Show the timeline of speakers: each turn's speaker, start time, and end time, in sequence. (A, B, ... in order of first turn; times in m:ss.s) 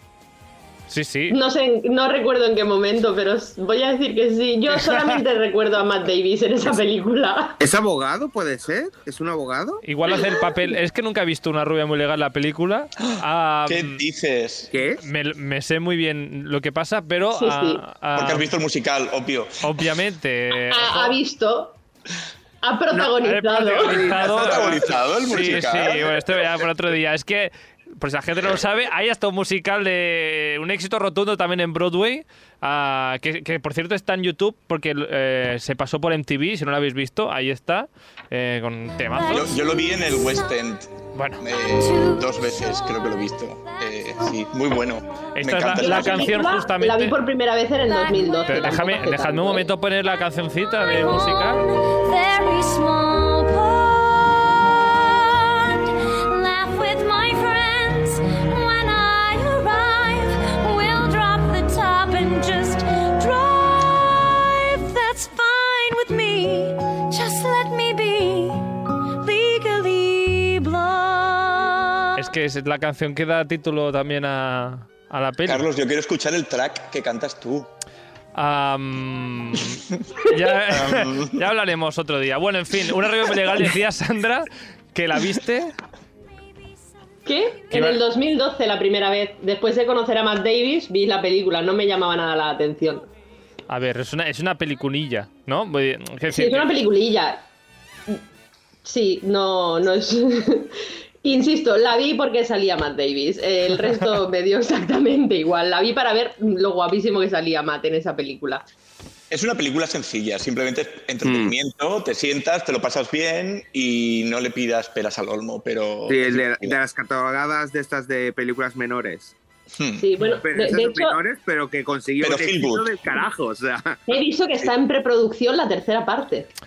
0:00.9-0:01.4 A
0:01.3-0:07.6 B
0:07.6-0:09.8 C
0:09.8-0:14.0 A
0:13.7-0:14.8 D
0:14.7-0:15.0 C
0:15.0-0:18.5 A
0:17.3-0:17.8 B
0:18.2-0:19.8 D
0:19.6-0:21.2 A
0:20.7-0:21.8 B
0:22.6-0:24.2 B
0:23.0-0:39.5 A
0:23.8-0:24.9 C
0:24.1-0:26.4 D
0:39.1-0:40.6 E
0:39.3-0:46.4 D
0:41.2-0:41.4 A
0:41.5-0:44.4 E
0:45.4-0:47.2 A
0:45.8-0:49.6 B
0:47.9-0:48.7 E
0:48.5-0:51.6 A
0:50.7-1:12.3 E
1:12.2-1:15.6 A
1:15.4-1:17.7 D
1:18.4-1:25.8 A
1:20.7-1:21.4 D
1:27.3-1:33.1 B
1:27.7-1:28.0 A
1:33.7-1:36.7 A
1:36.3-1:37.4 B
1:38.8-1:48.6 B
1:49.3-1:56.8 D
1:51.2-1:51.6 C
1:56.1-1:59.3 C
1:59.8-2:00.1 D
2:00.0-2:01.2 B
2:00.4-2:04.1 C
2:02.2-2:02.9 D
2:04.1-2:06.5 B